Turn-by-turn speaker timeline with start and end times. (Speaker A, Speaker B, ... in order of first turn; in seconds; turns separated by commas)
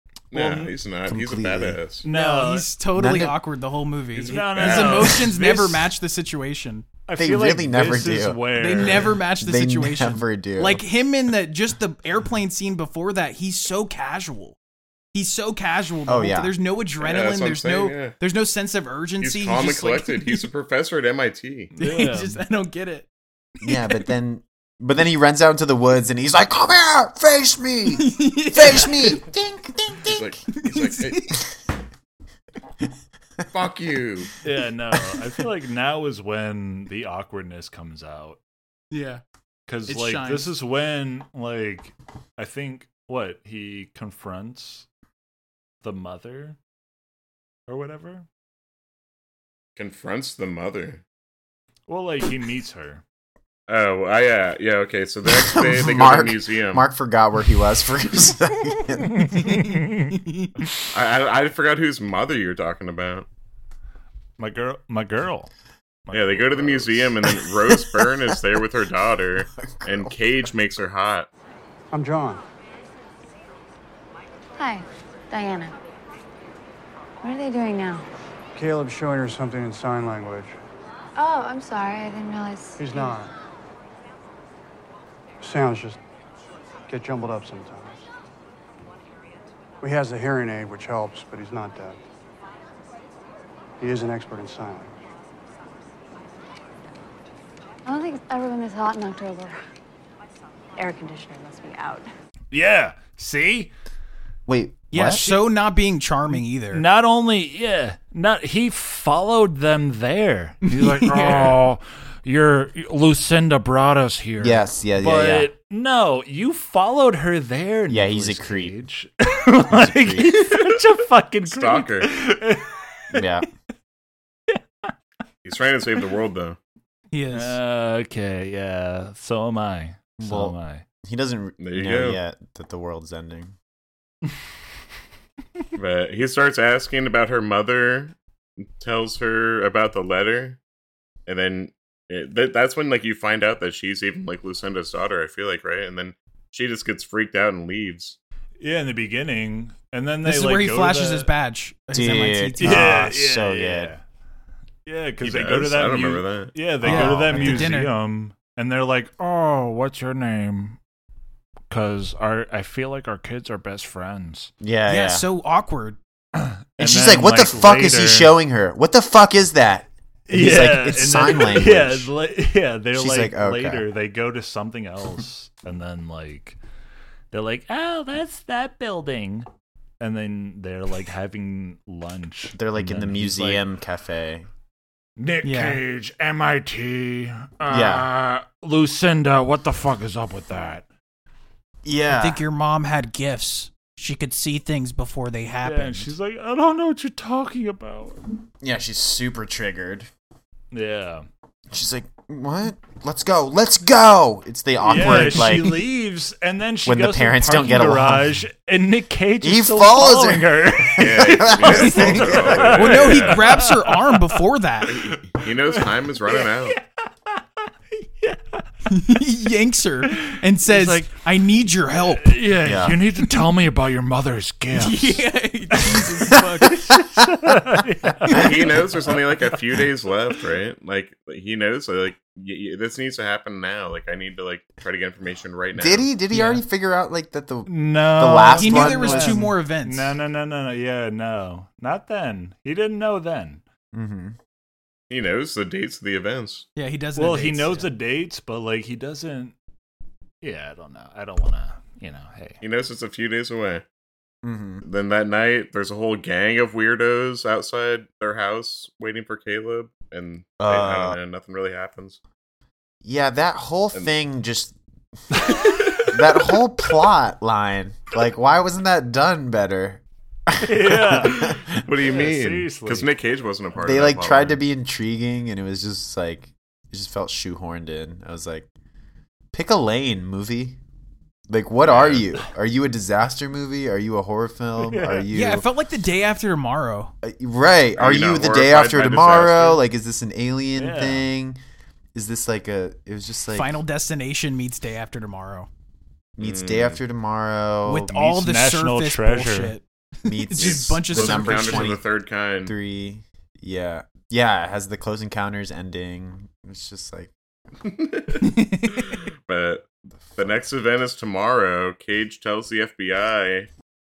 Speaker A: 0.3-2.0, Speaker B: 0.3-0.7, Speaker C: 1.1-1.8, Speaker B: 2.0-2.7, Speaker D: 2.1-6.9, Speaker C: 3.0-3.4, Speaker B: 4.1-5.9, Speaker A: 4.2-5.2, Speaker B: 7.1-9.2, Speaker C: 7.2-8.4, Speaker D: 8.6-14.6, Speaker C: 9.0-10.8, Speaker D: 15.1-20.4, Speaker C: 16.1-16.5, Speaker A: 17.0-18.2, Speaker A: 19.2-21.7, Speaker B: 21.8-22.4, Speaker D: 21.8-23.1, Speaker C: 23.6-30.3, Speaker D: 23.6-24.0, Speaker D: 27.9-29.2, Speaker A: 30.1-31.3, Speaker D: 30.5-31.4, Speaker A: 33.5-34.3, Speaker B: 34.4-38.4, Speaker D: 38.9-39.2, Speaker B: 39.7-44.9, Speaker D: 39.9-40.5, Speaker B: 45.8-46.6, Speaker B: 47.7-48.3, Speaker A: 49.8-51.0, Speaker B: 51.9-53.0, Speaker A: 53.7-56.9, Speaker C: 55.3-59.3, Speaker B: 59.1-60.1, Speaker D: 59.4-60.5, Speaker A: 60.9-63.3, Speaker B: 64.4-65.5, Speaker B: 66.0-67.1, Speaker A: 66.1-71.3, Speaker C: 67.3-68.4, Speaker C: 69.6-70.2, Speaker E: 71.9-72.4, Speaker F: 74.6-75.7, Speaker F: 77.2-78.0, Speaker E: 78.5-80.6, Speaker F: 81.2-83.2, Speaker E: 82.8-83.3, Speaker E: 85.4-86.0, Speaker E: 86.9-88.0, Speaker E: 89.8-92.0, Speaker E: 93.8-94.9, Speaker F: 97.9-99.6, Speaker F: 100.8-102.1, Speaker B: 102.5-103.7, Speaker C: 104.5-105.2, Speaker D: 104.9-106.8, Speaker B: 105.1-105.5, Speaker B: 106.3-123.2, Speaker D: 110.6-111.5, Speaker C: 114.4-115.5, Speaker C: 117.9-118.8, Speaker C: 119.7-120.5, Speaker A: 121.5-122.1, Speaker C: 123.1-123.5, Speaker B: 124.5-124.9, Speaker A: 125.4-126.6, Speaker D: 127.1-127.6, Speaker B: 127.3-130.8, Speaker C: 130.2-133.6, Speaker A: 131.6-132.2, Speaker A: 135.8-140.6, Speaker A: 141.3-148.2, Speaker B: 148.6-151.3, Speaker D: 150.2-153.1, Speaker C: 151.9-153.9, Speaker B: 152.6-154.0, Speaker B: 154.9-160.8, Speaker A: 155.2-156.6, Speaker D: 156.8-157.9, Speaker C: 156.8-157.7, Speaker B: 161.7-164.5, Speaker C: 164.6-165.3, Speaker D: 164.9-166.0, Speaker B: 166.4-168.3, Speaker C: 166.8-172.1, Speaker B: 170.3-176.6, Speaker C: 172.9-173.9, Speaker B: 177.3-179.5, Speaker B: 180.0-183.6, Speaker C: 182.5-184.5, Speaker B: 185.2-190.9, Speaker D: 185.4-185.8, Speaker C: 187.7-188.1, Speaker C: 191.8-192.4, Speaker D: 192.1-196.1, Speaker B: 195.6-198.2, Speaker C: 198.6-200.1, Speaker B: 200.7-201.3, Speaker C: 201.7-205.8, Speaker B: 204.8-216.8, Speaker C: 206.8-208.4, Speaker C: 209.4-212.9, Speaker A: 211.0-213.6, Speaker D: 211.8-215.1, Speaker A: 214.9-216.8, Speaker B: 217.9-218.6, Speaker D: 218.9-222.4, Speaker B: 220.1-221.2, Speaker B: 222.1-228.5, Speaker C: 222.6-223.0, Speaker D: 224.7-226.8, Speaker C: 226.4-226.9, Speaker A: 228.3-236.1, Speaker C: 235.7-239.5, Speaker B: 236.3-236.6, Speaker B: 237.7-243.6, Speaker D: 238.6-240.2, Speaker C: 243.9-244.4, Speaker A: 245.1-246.7, Speaker D: 246.8-247.9, Speaker B: 247.1-249.6, Speaker B: 250.4-252.6, Speaker A: 252.6-253.8, Speaker C: 254.4-254.8, Speaker A: 254.8-262.2, Speaker C: 260.6-261.2, Speaker C: 263.0-264.8, Speaker C: 266.0-271.8, Speaker B: 270.6-273.1, Speaker A: 271.3-274.6, Speaker C: 273.8-278.7, Speaker C: 279.5-280.8, Speaker C: 281.5-285.7, Speaker A: 281.9-282.2, Speaker B: 284.8-285.3, Speaker D: 285.3-287.1, Speaker C: 287.2-291.6, Speaker A: 288.0-289.8, Speaker B: 290.8-291.3, Speaker C: 292.1-293.8, Speaker D: 293.5-295.7, Speaker C: 296.4-298.1, Speaker A: 296.4-297.0, Speaker D: 297.9-301.9, Speaker B: 298.1-299.8, Speaker C: 300.2-302.0, Speaker A: 300.6-302.7, Speaker C: 302.6-307.3, Speaker A: 307.8-313.7, Speaker D: 308.4-309.0